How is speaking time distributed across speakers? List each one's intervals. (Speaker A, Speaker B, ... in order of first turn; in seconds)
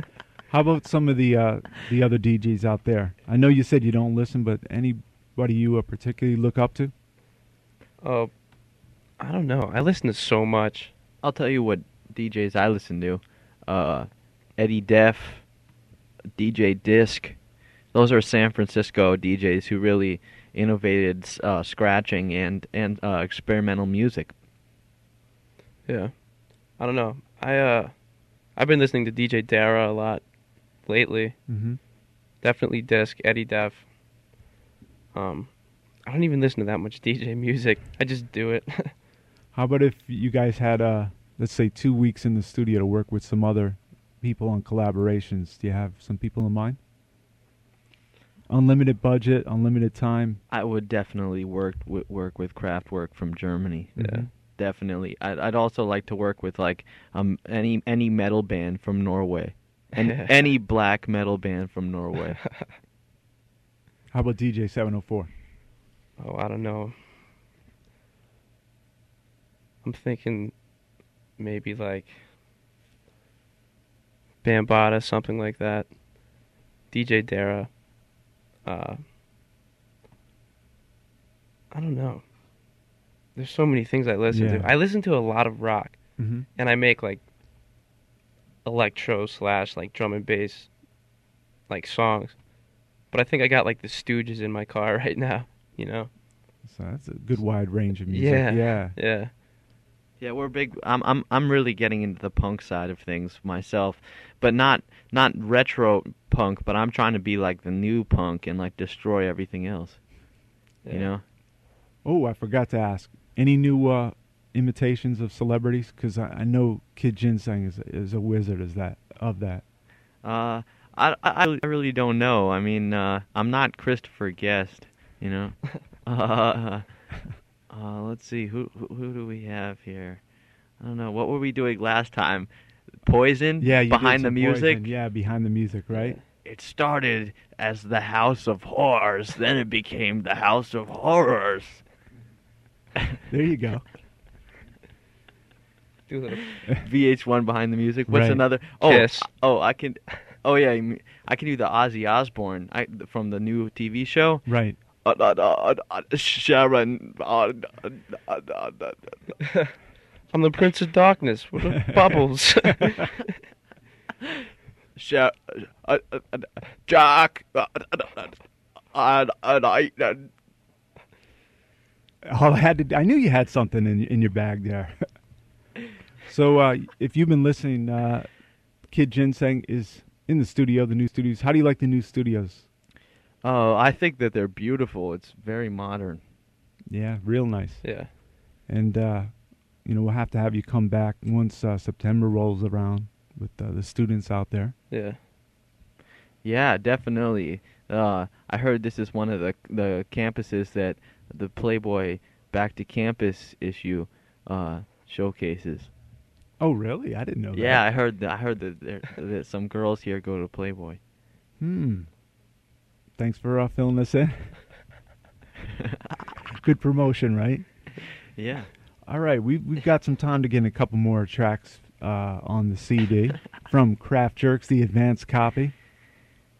Speaker A: 0.5-6.9, 31.5-31.8, 39.5-46.8, 48.5-50.4, 54.0-54.3, 64.1-65.3, 84.3-84.7, 86.2-86.5, 96.6-99.0, 112.0-119.6, 133.6-136.2, 143.3-143.8, 148.1-148.4, 154.4-154.8, 172.2-174.9, 176.2-178.3, 178.9-182.7, 186.9-188.1, 188.7-194.7, 206.6-207.8, 211.6-212.1, 213.2-214.6, 216.6-217.7, 219.1-225.7
Speaker B: 8.0-8.3, 9.2-10.9, 25.9-28.0, 28.5-30.2, 30.8-31.4, 32.4-33.9, 35.1-38.9, 54.0-54.2, 60.0-60.3, 66.2-67.0, 69.8-70.5, 71.4-72.2, 74.4-76.0, 76.9-77.7, 78.6-79.0, 81.7-82.2, 83.3-86.0, 86.5-87.2, 88.6-90.7, 91.7-92.4, 93.1-96.1, 98.1-99.3, 110.8-111.1, 146.1-146.5, 148.8-149.3, 159.4-159.7, 160.3-163.3, 187.8-188.1, 194.9-195.2
Speaker C: 11.2-15.4, 16.3-17.4, 17.9-24.3, 50.5-54.0, 54.5-62.4, 100.2-110.0, 110.9-111.2, 120.2-126.8, 127.7-130.2, 130.8-132.5, 133.0-134.9, 136.4-141.8, 146.6-154.5, 155.0-159.2, 164.9-168.4, 168.9-170.3, 183.4-186.2, 196.4-205.9, 207.5-211.0, 218.3-218.7